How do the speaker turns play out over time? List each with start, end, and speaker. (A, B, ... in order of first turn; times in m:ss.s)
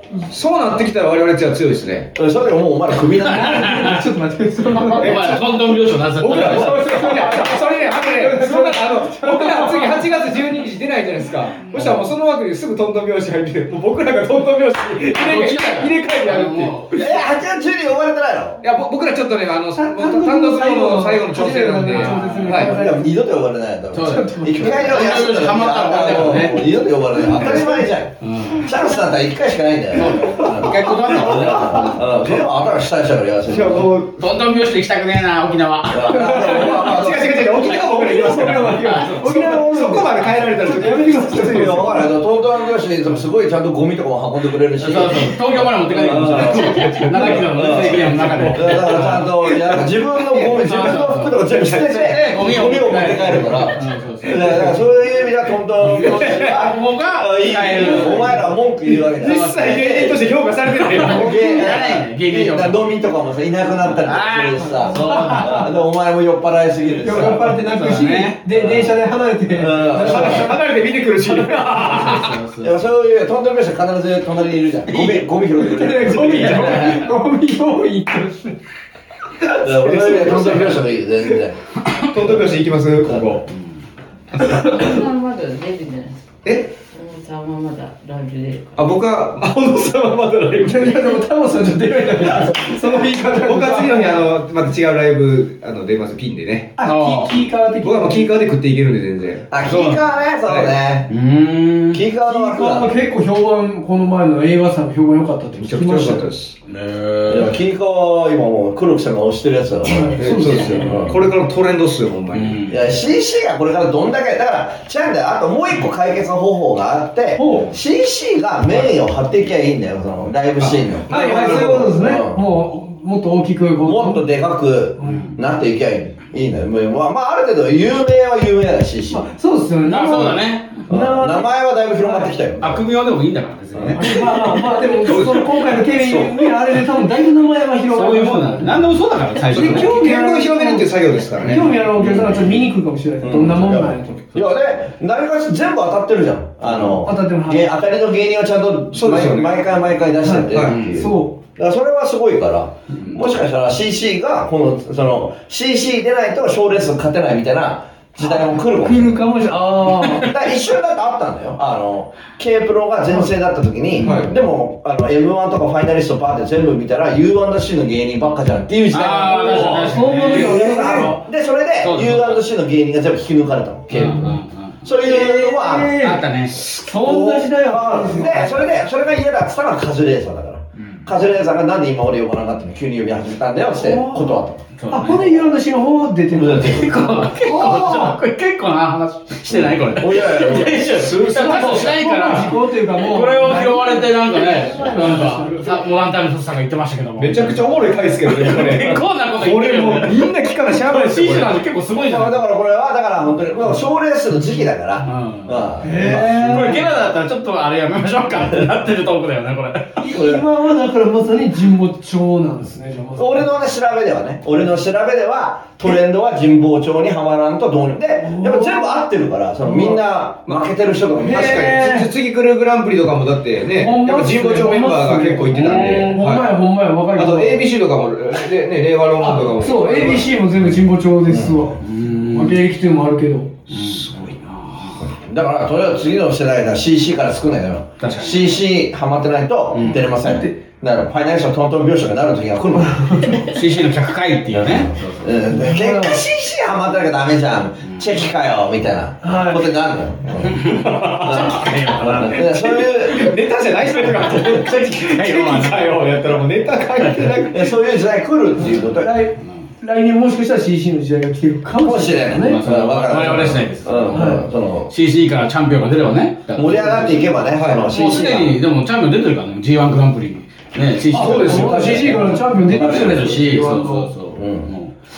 0:00.3-0:02.1 A
0:02.1-0:03.9 B
0:03.0-0:04.1 C
0:03.4-0:05.2 D
0:04.8-0:07.0 C
0:05.0-0:17.1 A
0:06.3-0:10.2 D
0:11.6-0:12.1 C
0:15.1-0:16.9 C
0:16.9-0:18.6 B
0:18.6-0:22.7 A
0:19.8-0:23.2 D
0:21.8-0:22.7 C
0:22.5-0:33.9 B
0:23.9-0:26.9 C
0:24.0-0:25.0 D
0:27.2-0:27.9 D
0:28.2-0:28.7 C
0:29.9-0:32.1 C
0:33.5-0:34.3 A
0:34.2-0:36.5 C
0:35.9-0:37.5 B
0:36.1-0:42.1 D
0:36.8-0:42.1 A
0:38.1-0:39.1 C
0:41.5-1:00.2 B
0:44.8-0:49.4 C
0:46.7-0:47.5 A
0:48.1-0:48.5 A
0:50.2-0:50.6 A
0:50.3-0:54.9 C
0:51.5-0:52.4 A
0:54.3-0:54.6 A
0:55.8-1:00.1 C
0:56.0-0:56.7 A
0:57.9-0:58.4 D
0:59.1-1:01.4 A
1:00.8-1:03.0 C
1:01.0-1:07.6 B
1:01.1-1:01.6 D
1:03.8-1:05.7 C
1:04.9-1:05.7 D
1:07.0-1:12.2 D
1:07.1-1:09.0 C
1:09.5-1:10.5 B
1:10.0-1:12.4 A
1:11.7-1:12.8 C
1:12.6-1:17.0 B
1:14.9-1:15.3 A
1:15.5-1:18.6 D
1:16.0-1:17.1 A
1:19.6-1:21.6 B
1:19.6-1:20.8 A
1:20.0-1:20.6 D
1:22.0-1:23.5 A
1:24.4-1:26.3 E
1:26.4-1:26.7 A
1:26.9-1:28.8 E
1:28.8-1:31.2 A
1:30.6-1:34.3 D
1:32.5-1:36.8 A
1:36.8-1:38.4 D
1:36.8-1:37.4 C
1:37.8-1:39.5 A
1:39.5-1:41.1 B
1:39.6-1:40.0 C
1:40.5-1:40.7 A
1:41.1-1:42.0 C
1:41.9-1:43.0 B
1:42.2-1:46.3 D
1:45.6-1:46.6 A
1:46.6-1:47.6 C
1:47.3-1:51.2 B
1:49.9-1:51.0 D
1:50.2-1:52.7 A
1:50.4-1:51.1 C
1:52.3-1:52.8 C
1:52.7-2:02.4 B
1:57.4-1:57.7 D
2:00.6-2:02.0 A
2:01.1-2:04.2 D
2:03.8-2:09.3 B
2:05.0-2:05.3 D
2:09.1-2:12.3 D
2:09.8-2:10.8 C
2:10.9-2:12.8 B
2:12.6-2:14.2 C
2:13.8-2:14.0 B
2:14.0-2:18.9 D
2:14.5-2:16.6 A
2:17.9-2:20.0 C
2:19.5-2:21.8 A
2:19.5-2:24.2 D
2:21.4-2:22.6 C
2:23.2-2:39.3 B
2:26.7-2:27.0 C
2:27.0-2:27.7 D
2:29.0-2:29.6 A
2:30.2-2:31.4 D
2:30.6-2:31.0 C
2:38.2-2:40.3 D
2:40.2-2:56.0 B
2:44.0-2:44.2 D
2:44.0-2:44.4 A
2:48.9-2:51.1 C
2:49.2-2:51.2 D
2:51.8-2:52.4 C
2:53.9-2:54.9 C
2:54.9-2:58.8 D
2:55.9-2:56.7 C
2:56.9-3:04.6 B
3:03.8-3:08.2 D
3:04.8-3:05.4 C
3:06.3-3:07.1 B
3:06.5-3:22.4 C
3:09.9-3:10.9 B
3:10.9-3:12.0 A
3:11.3-3:15.8 D
3:17.2-3:21.7 A
3:22.0-3:26.8 B
3:25.0-3:30.0 C
3:25.8-3:26.9 D
3:30.0-3:33.5 D
3:30.1-3:30.4 B
3:33.2-3:41.9 B
3:38.2-3:39.0 D
3:39.6-3:40.0 D
3:40.5-3:46.6 A
3:41.2-3:42.1 D
3:43.8-3:47.7 D
3:45.5-3:46.2 C
3:47.1-3:50.4 A
3:49.2-3:53.5 D
3:51.3-3:51.7 B
3:51.8-3:52.6 C
3:53.7-3:55.0 C
3:53.7-3:54.3 A
3:55.0-4:03.4 B
3:58.0-3:58.6 C
3:59.7-4:00.1 C
4:02.9-4:03.4 D
4:03.3-4:05.3 C
4:04.5-4:10.6 B
4:05.5-4:06.2 D
4:07.9-4:08.1 C
4:09.2-4:09.7 D
4:10.4-4:13.0 C
4:10.6-4:11.7 A
4:11.2-4:13.3 B
4:13.1-4:17.7 A
4:14.0-4:16.2 C
4:17.0-4:17.4 C
4:17.5-4:19.3 B
4:18.6-4:22.6 D
4:21.8-4:24.9 B
4:22.3-4:27.3 C
4:24.1-4:24.4 D
4:26.5-4:28.6 B
4:27.5-4:28.0 A
4:27.9-4:34.9 C
4:31.1-4:32.2 A
4:31.2-4:34.1 D
4:31.2-4:33.2 B
4:34.3-4:34.7 B